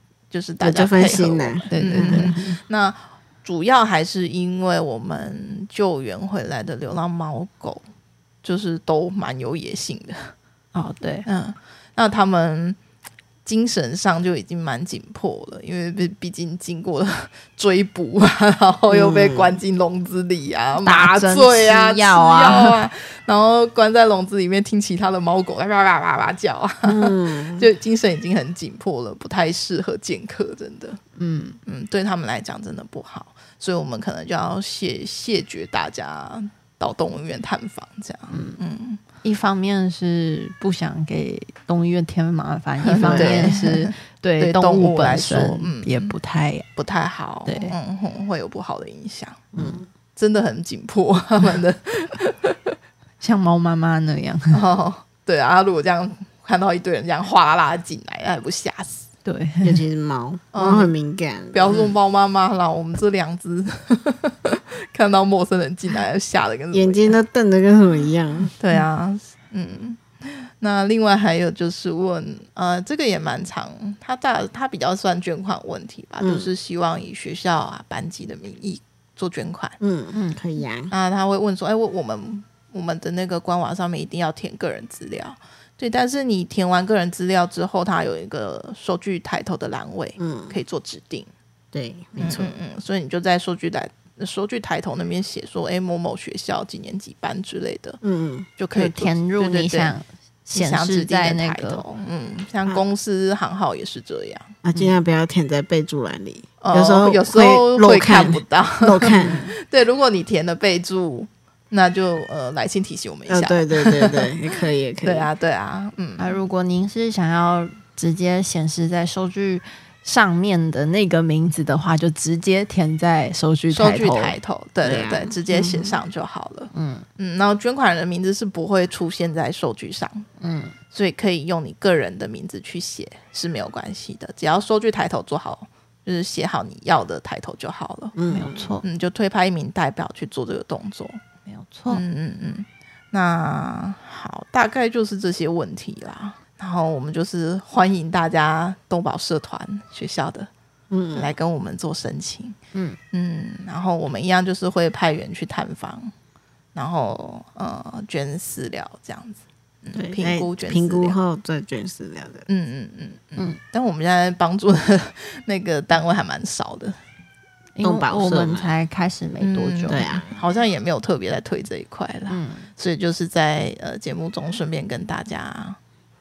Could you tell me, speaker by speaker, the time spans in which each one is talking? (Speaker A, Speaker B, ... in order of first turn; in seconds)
Speaker A: 0.3-7.8, 8.4-10.3, 11.3-12.8, 13.4-31.0, 31.7-39.0, 42.8-46.1, 46.8-49.4, 50.1-52.6, 54.5-59.1, 60.5-61.0, 61.5-67.2, 68.6-79.8, 80.9-91.3, 92.2-98.0, 98.6-100.0, 100.5-104.5, 106.6-114.3, 115.0-116.4, 123.7-130.3, 130.9-138.2, 138.8-141.2, 141.9-150.5, 151.2-152.6, 153.1-156.1, 156.7-161.2, 162.5-167.0, 169.3-175.8
Speaker B: 0.6-2.6, 18.9-19.6, 26.8-27.7, 43.0-43.5, 49.5-49.9, 59.6-61.8, 66.7-68.5, 76.2-76.5, 79.8-80.9, 90.2-90.6, 91.7-92.6, 98.0-98.5, 104.6-109.5, 113.3-115.3, 124.8-126.0, 138.2-138.7, 150.9-151.3, 160.2-162.5, 167.8-168.7, 169.9-170.4
Speaker C: 1.7-2.4, 10.7-11.3, 20.8-22.8, 31.2-31.6, 38.3-38.6, 39.2-46.7, 47.5-47.8, 53.2-54.6, 59.2-59.8, 80.1-80.4, 98.7-101.8, 104.7-105.0, 116.2-124.4, 126.7-127.1, 130.4-130.8, 138.3-138.8, 141.5-142.0, 152.7-153.0, 167.8-170.2, 172.3-172.7